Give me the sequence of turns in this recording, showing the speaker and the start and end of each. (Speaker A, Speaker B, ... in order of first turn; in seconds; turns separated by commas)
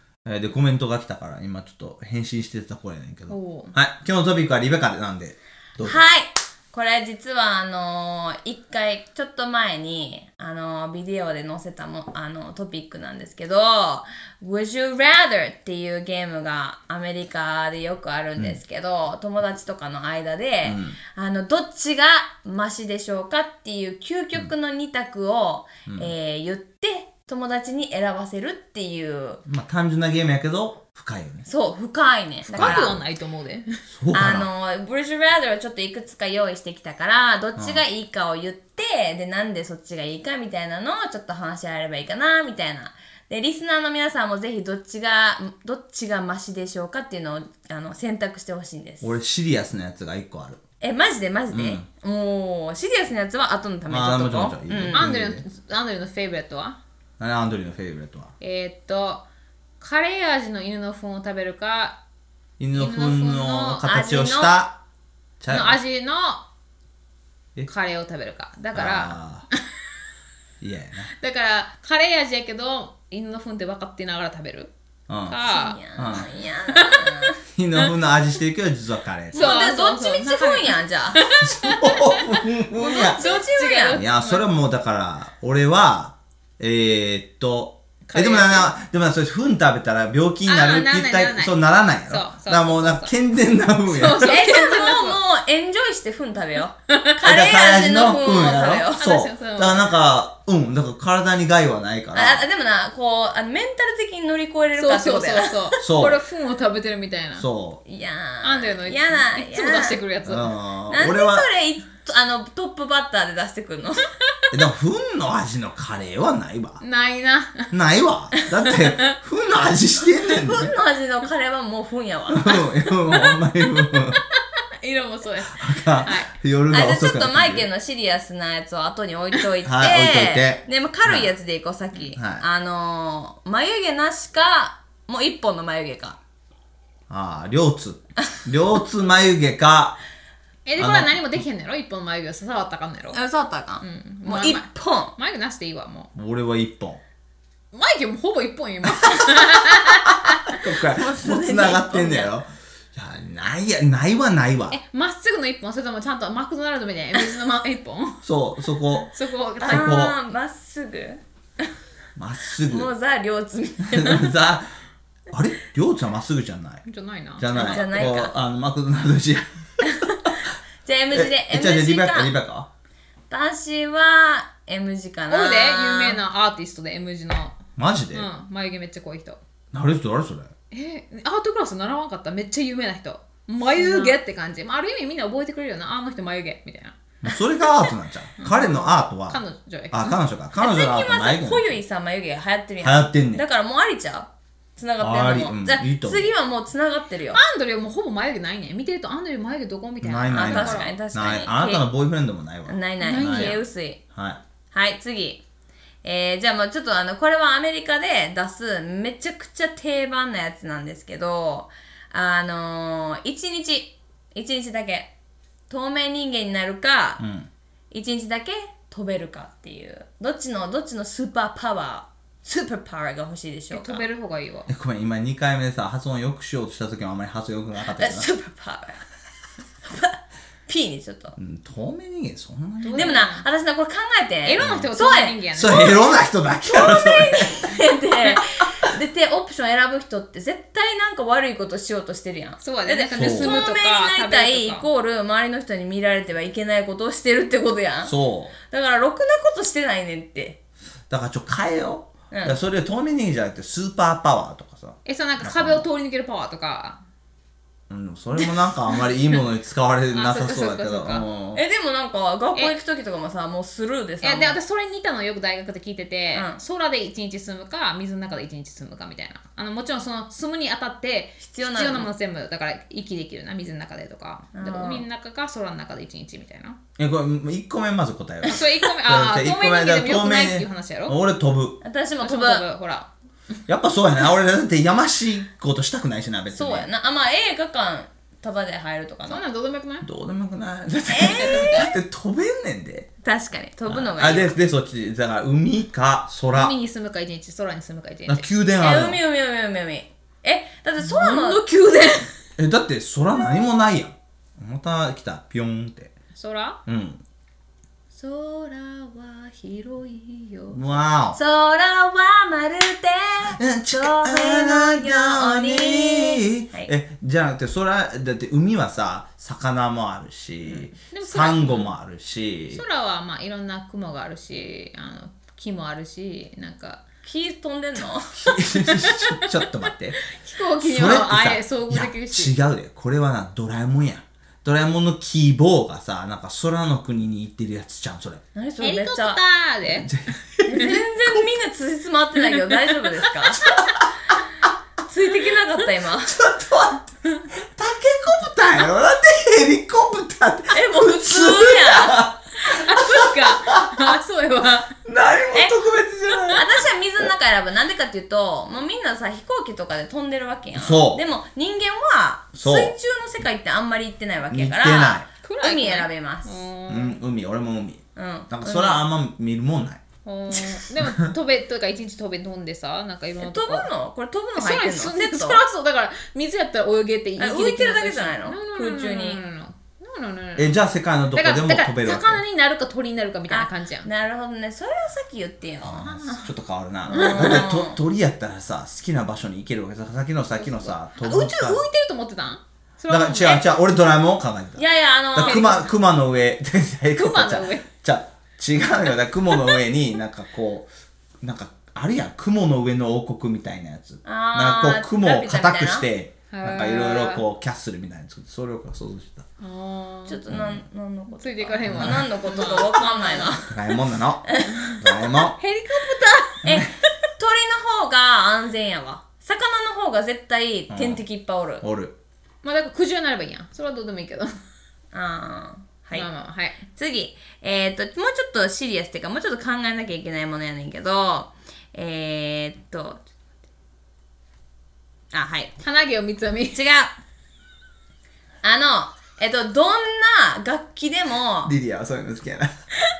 Speaker A: 0.2-6.0, Speaker B: 3.3-3.7, Speaker C: 5.8-29.4, Speaker A: 20.6-21.0, Speaker A: 25.9-26.1, Speaker A: 29.5-31.5, Speaker C: 31.5-33.0, Speaker B: 32.5-33.8, Speaker A: 32.6-33.0, Speaker A: 33.9-34.5, Speaker C: 34.1-49.1, Speaker A: 37.6-37.8, Speaker A: 49.0-50.6, Speaker C: 50.8-55.0, Speaker A: 51.5-51.9, Speaker A: 53.9-55.4, Speaker B: 54.9-56.8, Speaker A: 57.2-58.3, Speaker B: 58.4-59.2, Speaker B: 59.8-62.0, Speaker A: 62.6-64.8, Speaker B: 62.8-63.8, Speaker C: 63.8-64.6, Speaker A: 65.4-65.8, Speaker B: 65.5-66.4, Speaker B: 67.7-69.2, Speaker A: 68.7-69.5, Speaker A: 70.6-71.1, Speaker B: 71.2-74.7, Speaker A: 75.1-75.4, Speaker B: 75.2-75.8, Speaker C: 75.5-77.4, Speaker A: 76.0-76.3, Speaker B: 76.7-77.2, Speaker A: 77.5-79.6, Speaker C: 79.3-81.3, Speaker B: 79.3-84.5, Speaker A: 81.4-83.2, Speaker C: 82.8-84.0, Speaker A: 83.9-94.4, Speaker B: 88.1-88.7, Speaker B: 90.5-93.1, Speaker B: 93.9-95.2, Speaker C: 94.2-99.0, Speaker A: 97.2-102.4, Speaker B: 99.0-99.9, Speaker C: 102.1-105.7, Speaker B: 104.8-107.5, Speaker A: 105.8-106.2, Speaker A: 107.3-107.8, Speaker C: 107.8-110.0, Speaker B: 108.4-110.5, Speaker A: 110.2-111.5, Speaker C: 110.9-114.1, Speaker A: 114.5-116.8, Speaker B: 116.8-117.7, Speaker A: 117.7-120.7, Speaker B: 118.7-119.1, Speaker C: 120.2-122.7, Speaker A: 122.3-124.2, Speaker B: 124.8-126.3, Speaker A: 125.6-127.7, Speaker C: 126.7-136.2, Speaker A: 129.6-131.3, Speaker A: 132.2-132.4, Speaker A: 137.1-140.0, Speaker B: 140.7-143.2, Speaker A: 140.8-141.2, Speaker C: 143.1-145.2, Speaker B: 143.8-146.1, Speaker A: 146.2-147.0, Speaker B: 147.7-150.4, Speaker A: 150.1-154.8, Speaker C: 150.9-152.3, Speaker B: 154.7-158.2, Speaker A: 158.2-159.1, Speaker B: 159.1-160.1, Speaker A: 159.6-160.2, Speaker C: 159.6-161.2, Speaker A: 162.2-162.9, Speaker C: 162.7-164.3, Speaker A: 163.9-164.7, Speaker A: 165.3-166.8, Speaker B: 166.8-167.8, Speaker A: 167.4-170.4, Speaker C: 167.5-168.3, Speaker C: 169.8-170.2, Speaker C: 170.8-172.3, Speaker A: 171.1-172.7, Speaker C: 173.3-176.2, Speaker B: 175.3-177.6, Speaker A: 177.8-178.3, Speaker B: 178.1-179.4, Speaker A: 179.7-180.5, Speaker B: 180.7-186.9, Speaker C: 183.7-184.2, Speaker A: 187.2-191.8, Speaker B: 188.4-190.2, Speaker C: 190.6-197.4, Speaker A: 192.8-193.4, Speaker A: 195.0-196.3, Speaker B: 197.3-200.9, Speaker A: 200.0-203.6, Speaker C: 200.3-201.8, Speaker C: 202.7-204.0, Speaker B: 203.0-203.7, Speaker A: 204.1-204.4, Speaker C: 204.7-205.4, Speaker C: 206.0-215.1, Speaker C: 215.7-217.2, Speaker A: 217.2-217.5, Speaker C: 217.9-224.0, Speaker B: 223.7-224.7, Speaker A: 224.7-228.3, Speaker C: 227.8-229.0, Speaker C: 229.8-231.3, Speaker A: 231.4-233.2, Speaker B: 232.8-233.4, Speaker C: 232.9-236.0, Speaker B: 234.4-236.1, Speaker A: 234.6-234.9, Speaker A: 235.5-237.8, Speaker C: 236.7-248.1, Speaker B: 242.6-244.9, Speaker A: 243.2-243.7, Speaker A: 248.0-248.5, Speaker C: 248.7-250.6, Speaker A: 251.1-255.9, Speaker C: 252.3-252.6, Speaker B: 255.0-257.0, Speaker A: 257.9-261.6, Speaker B: 260.1-261.2, Speaker C: 261.5-264.6, Speaker B: 264.2-276.8, Speaker C: 266.3-266.6, Speaker C: 271.4-272.1, Speaker C: 274.5-275.1, Speaker A: 277.0-281.8, Speaker B: 278.5-281.2, Speaker C: 281.8-282.6, Speaker B: 282.2-283.1, Speaker A: 283.7-286.9, Speaker C: 286.5-289.4, Speaker B: 289.3-290.1, Speaker A: 290.0-293.1, Speaker C: 291.1-292.0, Speaker B: 291.4-291.9, Speaker C: 293.2-294.6, Speaker A: 293.9-296.8, Speaker B: 296.5-298.5, Speaker A: 298.3-299.2, Speaker C: 298.8-301.6, Speaker B: 301.0-302.3, Speaker A: 302.6-306.1, Speaker B: 306.4-306.8, Speaker A: 306.9-307.2, Speaker B: 308.1-311.0, Speaker A: 310.7-311.4, Speaker C: 311.3-316.9, Speaker A: 313.6-322.8, Speaker B: 320.7-321.9, Speaker B: 322.7-327.0, Speaker C: 327.2-328.6, Speaker A: 328.3-330.2, Speaker B: 328.8-329.6, Speaker B: 330.2-332.5, Speaker A: 330.8-338.4, Speaker C: 338.5-339.4, Speaker B: 338.8-340.1, Speaker A: 339.9-341.0, Speaker C: 340.6-343.7, Speaker C: 345.0-346.4, Speaker A: 346.2-354.2, Speaker C: 350.7-352.3, Speaker B: 352.7-354.9, Speaker A: 355.0-356.6, Speaker B: 356.3-356.6, Speaker C: 356.5-366.6, Speaker A: 360.8-361.2, Speaker A: 362.6-362.9, Speaker A: 364.5-365.2, Speaker B: 365.4-367.2, Speaker A: 366.9-370.0, Speaker C: 368.1-369.0, Speaker B: 370.2-373.9, Speaker A: 371.0-371.3, Speaker C: 373.4-375.6, Speaker B: 374.6-380.8, Speaker C: 377.4-379.4, Speaker A: 380.6-382.4, Speaker B: 381.3-384.1, Speaker C: 383.5-386.2, Speaker A: 385.8-391.8, Speaker B: 386.0-386.5, Speaker C: 387.1-388.0, Speaker B: 387.1-387.7, Speaker B: 390.6-393.7, Speaker A: 393.1-400.9, Speaker C: 394.8-395.9, Speaker B: 395.4-395.9, Speaker B: 397.1-397.9, Speaker A: 401.4-409.4, Speaker C: 404.2-406.1, Speaker B: 406.5-407.4, Speaker B: 409.6-410.4, Speaker C: 410.3-413.8, Speaker A: 410.5-410.8, Speaker B: 411.4-413.6, Speaker A: 411.9-412.3, Speaker A: 413.7-415.6, Speaker C: 414.5-415.0, Speaker B: 414.7-415.0, Speaker B: 415.6-416.6, Speaker C: 416.6-421.9, Speaker A: 416.6-416.9, Speaker A: 420.9-421.2, Speaker A: 421.8-422.1, Speaker B: 422.6-424.5, Speaker C: 425.1-426.3, Speaker B: 426.1-426.8, Speaker C: 426.9-433.2, Speaker C: 435.3-435.7, Speaker B: 435.8-436.8, Speaker C: 436.7-437.1, Speaker C: 438.6-441.7, Speaker A: 441.6-442.8